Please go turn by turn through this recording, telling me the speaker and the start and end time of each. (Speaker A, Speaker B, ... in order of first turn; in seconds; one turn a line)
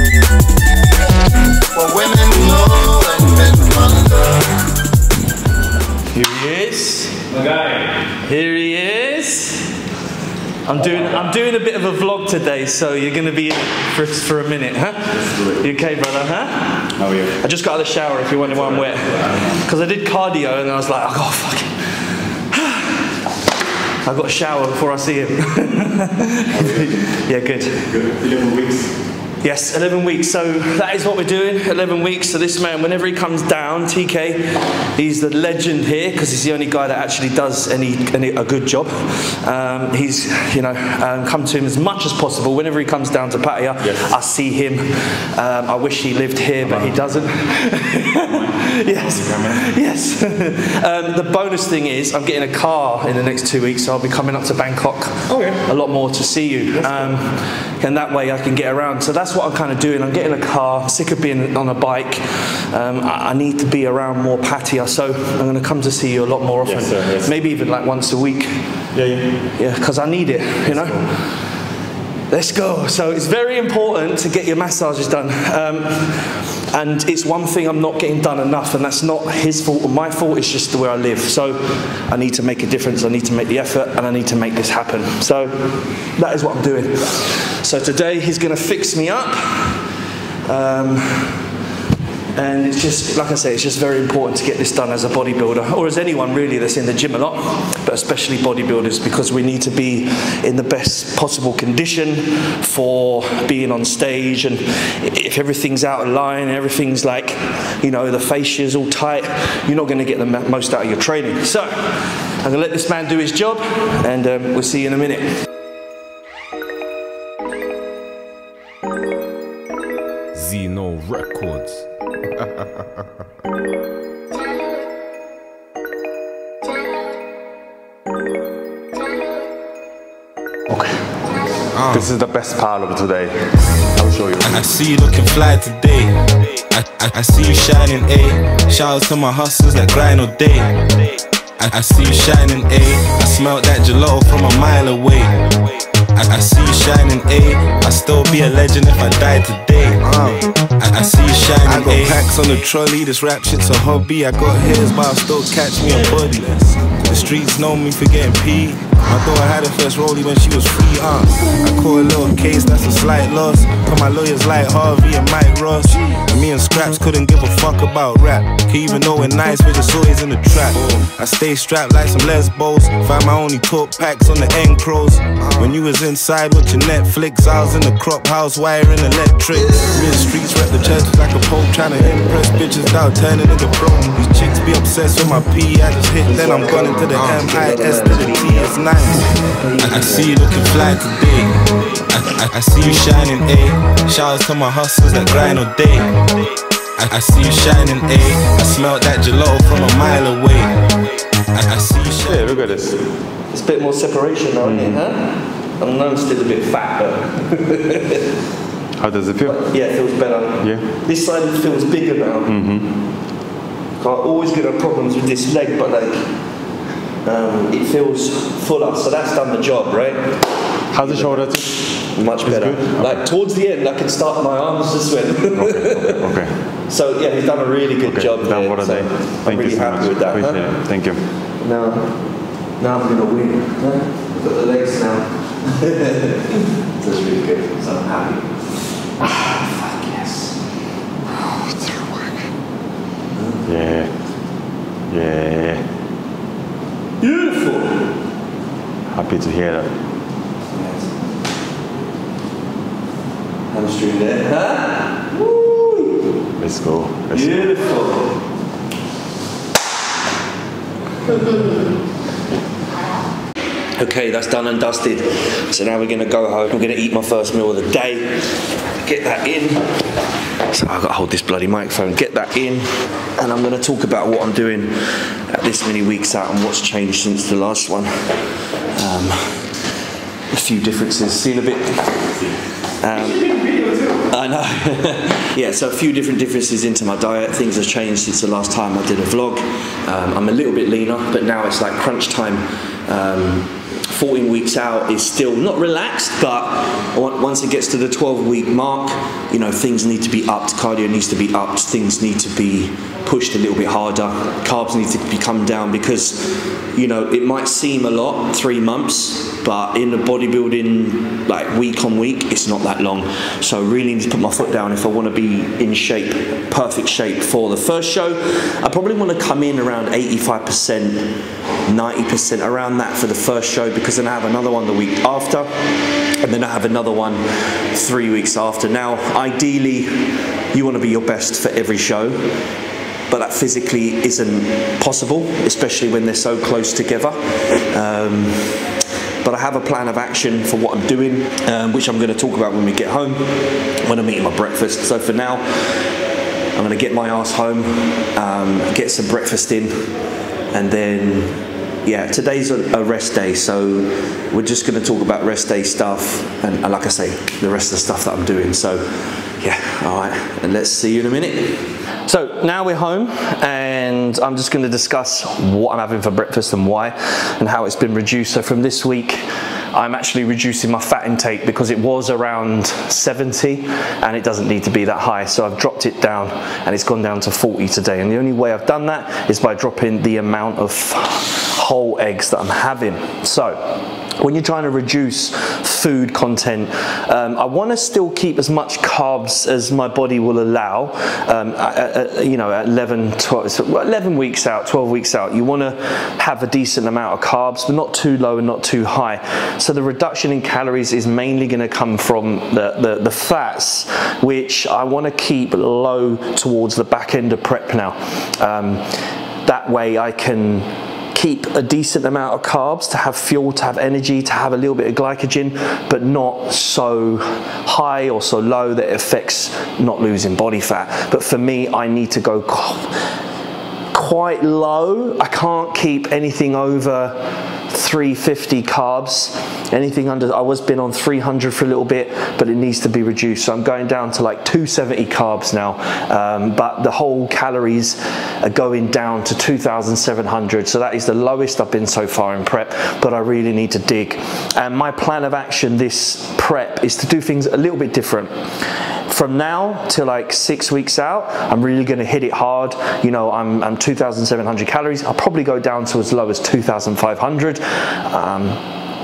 Speaker A: 1.7-4.6
Speaker B: 6.1-9.7
Speaker B: 10.6-23.0
Speaker C: 15.2-15.6
Speaker C: 17.0-17.3
Speaker B: 24.0-27.9
Speaker C: 26.6-26.9
Speaker C: 27.9-28.9
Speaker B: 29.4-68.6
Speaker C: 48.3-49.6
Speaker C: 66.7-67.3
Speaker C: 68.9-69.4
Speaker B: 69.6-71.4
Speaker C: 70.7-71.0
Speaker B: 72.3-89.8
Speaker B: 90.5-91.5
Speaker B: 92.3-115.3
Speaker D: 120.5-121.6
Speaker D: 131.7-132.1
Speaker C: 131.8-134.6
Speaker D: 134.4-140.8
Speaker D: 141.6-145.6
Speaker D: 146.1-196.2
Speaker B: 186.2-190.4
Speaker D: 197.0-202.5
Speaker C: 202.2-203.0
Speaker B: 203.5-208.2
Speaker C: 204.6-205.0
Speaker C: 209.0-209.6
Speaker B: 209.4-212.6
Speaker C: 212.5-212.9
Speaker B: 214.0-216.3
Speaker B: 217.2-220.4
Speaker C: 220.9-221.7
Speaker B: 220.9-221.5
Speaker B: 222.1-226.2
Speaker C: 222.4-223.2
Speaker C: 225.5-226.5
Speaker B: 226.9-230.6
Speaker C: 228.1-231.2
Speaker B: 231.6-232.1
Speaker B: 232.8-238.6
Speaker B: 239.2-240.6
Speaker C: 241.7-242.3
Speaker B: 243.3-243.6
Speaker C: 243.6-244.1
Speaker C: 245.1-245.8
Speaker B: 247.2-248.1
Speaker C: 249.1-249.9
Speaker B: 250.7-251.1
Speaker B: 253.7-256.2
Speaker C: 256.6-257.6
Speaker B: 257.3-258.4
Speaker B: 264.0-268.4
Speaker B: 269.0-269.9
Speaker B: 270.7-278.3
Speaker B: 278.9-279.7
Speaker B: 280.5-282.4
Speaker B: 283.0-283.5
Speaker B: 284.2-325.7
Speaker B: 326.4-332.4
Speaker B: 333.3-337.4
Speaker B: 337.9-338.9
Speaker B: 339.4-346.0
Speaker B: 346.7-350.1
Speaker B: 350.7-359.1
Speaker B: 359.6-423.2
Speaker B: 424.1-448.5
Speaker B: 449.3-458.8